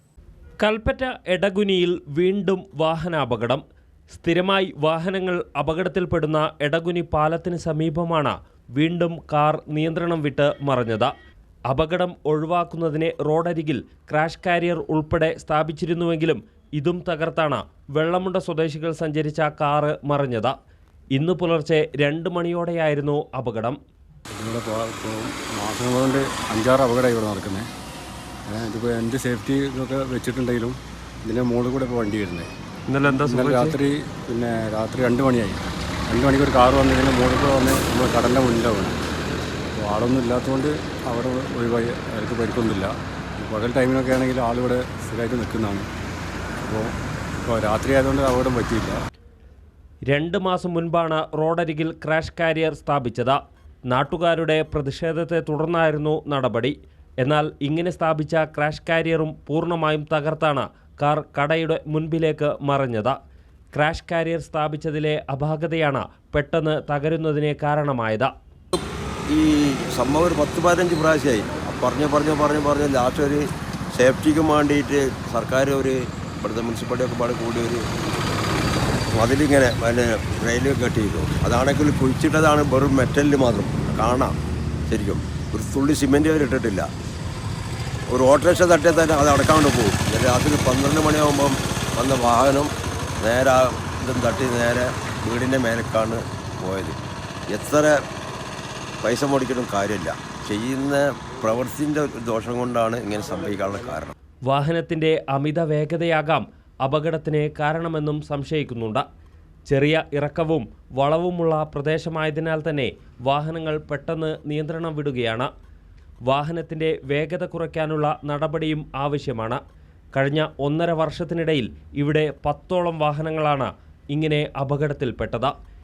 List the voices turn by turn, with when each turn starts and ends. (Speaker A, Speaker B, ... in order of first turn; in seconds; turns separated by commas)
Speaker A: 0.6-11.1, Speaker A: 11.7-20.5, Speaker A: 21.2-23.8, Speaker B: 24.3-27.7, Speaker B: 28.5-32.5, Speaker A: 32.9-33.8, Speaker B: 33.1-39.0, Speaker B: 39.8-45.9, Speaker B: 46.6-47.0, Speaker B: 47.5-49.0, Speaker A: 50.1-53.4, Speaker A: 53.9-63.1, Speaker A: 63.7-68.3, Speaker C: 69.3-77.8, Speaker C: 79.2-84.4, Speaker C: 84.9-86.9, Speaker C: 88.1-97.0, Speaker C: 97.5-98.0, Speaker C: 99.0-104.1, Speaker A: 104.5-109.0, Speaker A: 109.7-115.5, Speaker A: 116.3-119.6, Speaker A: 120.1-125.5